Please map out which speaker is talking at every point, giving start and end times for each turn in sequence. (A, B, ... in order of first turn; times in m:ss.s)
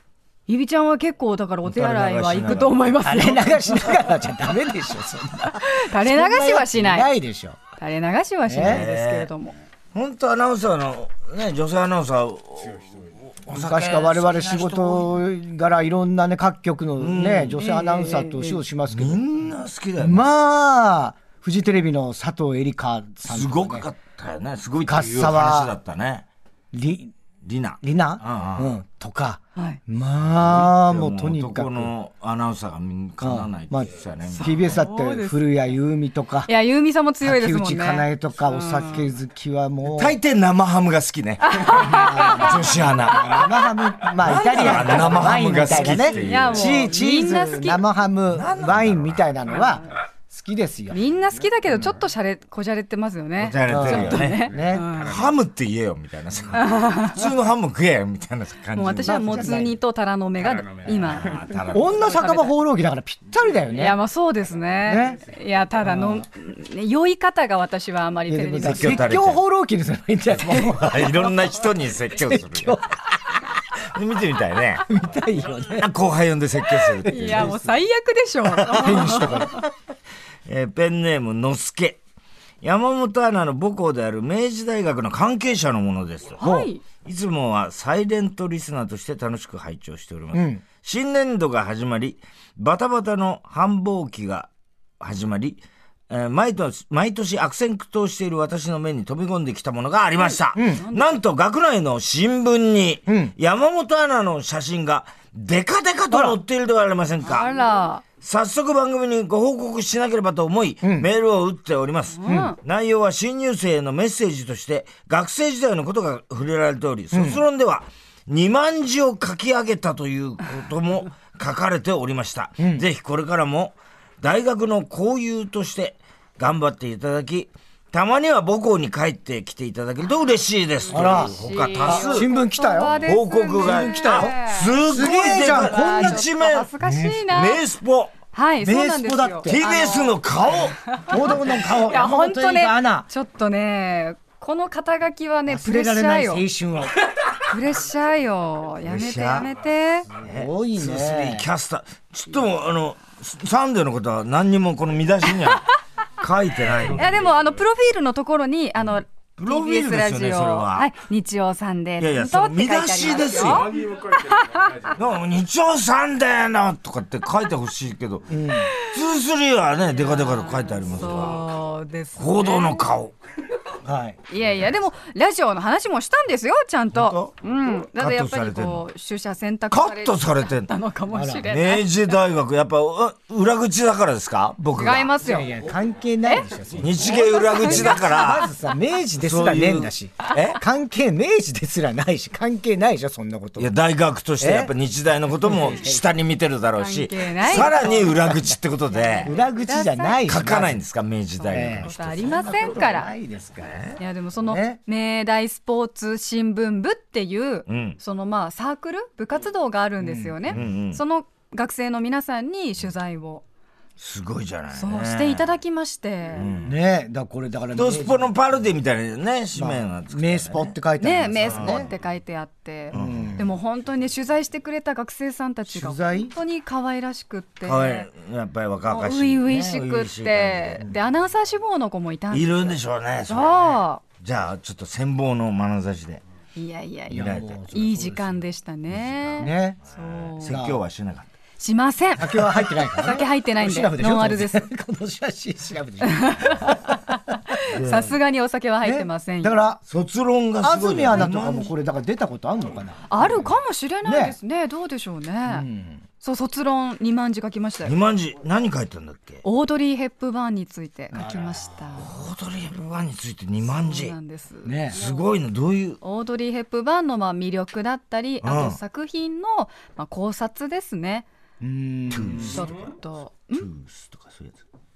0:00.5-0:04.0 A
0:01.6-0:02.8 B
0:03.0-0:07.6 C
0:05.5-0:07.1 A
0:07.8-0:09.6 A
0:08.4-0:08.8 C
0:08.6-0:09.3 B
0:09.9-0:12.8 B
0:13.4-0:15.2 B
0:13.5-0:19.2 C
0:17.0-0:17.6 B
0:17.6-0:18.6 A
0:18.9-0:20.2 B
0:20.0-0:23.8 C
0:23.2-0:26.2 B
0:24.8-0:25.7 C
0:26.7-0:27.1 C
0:27.4-0:28.7 B
0:27.8-0:31.9 C
0:30.3-0:34.8 B
0:33.2-0:36.5 C
0:34.4-0:35.4 A
0:36.5-0:39.1 A
0:37.2-0:40.2 C
0:39.9-0:43.6 B
0:41.4-0:42.5 A
0:41.7-0:51.0 C
0:44.2-0:46.8 B
0:44.3-0:45.2 A
0:46.1-0:47.8 A
0:48.3-0:49.3 B
0:49.5-0:49.9 A
0:50.9-0:55.2 A
0:53.4-0:59.6 B
0:53.7-0:54.9 C
0:56.5-0:57.2 A
0:58.7-1:02.5 A
0:59.0-0:59.8 C
1:00.8-1:02.1 B
1:01.7-1:04.0 C
1:03.8-1:09.1 A
1:04.8-1:05.2 C
1:05.8-1:06.2 C
1:08.3-1:11.4 C
1:08.6-1:09.4 B
1:10.4-1:12.8 B
1:12.2-1:13.4 C
1:13.9-1:14.9 B
1:14.8-1:15.9 C
1:15.7-1:17.6 B
1:17.0-1:17.7 C
1:17.1-1:19.5 A
1:18.5-1:19.5 B
1:18.7-1:19.6 C
1:20.4-1:22.0 B
1:22.6-1:26.5 B
1:26.4-1:26.8 A
1:27.0-1:34.5 B
1:30.3-1:30.6 C
1:35.0-1:47.5 B
1:40.2-1:41.2 A
1:40.5-1:40.8 C
1:43.1-1:43.3 C
1:46.1-1:46.4 C
1:47.2-1:48.0 A
1:48.2-2:12.3 B
1:50.8-1:51.1 C
1:52.1-1:52.6 A
1:57.1-1:57.4 C
2:02.6-2:02.8 C
2:10.8-2:17.6 A
2:10.9-2:16.2 C
2:12.8-2:16.7 B
2:16.8-2:17.2 C
2:17.3-2:18.1 B
2:18.3-2:20.2 A
2:18.6-2:19.6 C
2:19.4-2:21.0 B
2:20.8-2:26.4 A
2:21.1-2:23.1 C
2:25.5-2:26.9 C
2:27.4-2:30.1 A
2:28.8-2:29.5 B
2:30.2-2:37.2 B
2:30.2-2:31.5 C
2:36.9-2:44.9 A
2:39.4-2:40.9 B
2:42.0-2:43.8 B
2:44.9-2:51.5 B
2:48.3-2:48.7 C
2:49.9-2:52.8 A
2:52.2-2:53.1 B
2:53.8-2:54.2 C
2:54.3-3:02.1 A
2:56.9-2:57.3 B
2:57.9-2:58.8 B
2:59.7-3:00.7 B
3:01.1-3:01.5 C
3:01.5-3:05.1 B
3:04.7-3:05.5 A
3:05.2-3:13.7 C
3:06.8-3:08.5 B
3:07.0-3:08.1 A
3:09.2-3:10.6 B
3:13.6-3:19.3 B
3:14.4-3:14.7 C
3:15.4-3:16.0 C
3:16.8-3:18.3 A
3:18.9-3:20.3 A
3:19.2-3:20.8 C
3:20.2-3:22.7 B
3:21.3-3:23.1 A
3:21.5-3:24.8 C
3:23.6-3:24.0 B
3:24.0-3:33.4 A
3:27.7-3:28.0 B
3:30.0-3:30.6 C
3:30.5-3:31.0 B
3:34.0-3:35.6 B
3:34.7-3:36.5 A
3:36.3-3:36.8 B
3:36.6-3:38.3 C
3:37.7-3:40.7 B
3:39.5-3:41.9 C
3:41.0-3:48.1 A
3:41.4-3:41.9 B
3:42.9-3:43.4 B
3:42.9-3:43.5 C
3:45.7-3:46.3 C
3:47.6-3:50.9 B
3:48.9-3:54.0 A
3:52.3-3:56.2 B
3:56.6-4:00.6 A
3:57.1-3:57.6 B
3:57.1-3:58.4 C
3:58.9-4:01.3 B
3:59.4-3:59.8 C
4:00.4-4:00.8 C
4:01.6-4:04.7 A
4:02.2-4:07.0 C
4:06.0-4:09.6 A
4:07.7-4:08.2 B
4:08.8-4:09.8 C
4:09.9-4:11.7 B
4:10.6-4:13.2 C
4:13.1-4:15.6 A
4:14.0-4:14.4 C
4:15.5-4:16.0 C
4:16.2-4:18.0 A
4:17.8-4:19.4 B
4:19.4-4:22.1 A
4:21.1-4:21.7 C
4:22.0-4:24.1 B
4:23.6-4:25.2 A
4:24.6-4:25.0 C
4:24.9-4:26.0 B
4:26.0-4:31.2 A
4:28.4-4:28.8 B
4:31.6-4:32.6 C
4:32.1-4:32.8 B
4:32.5-4:33.7 A
4:33.5-4:34.6 B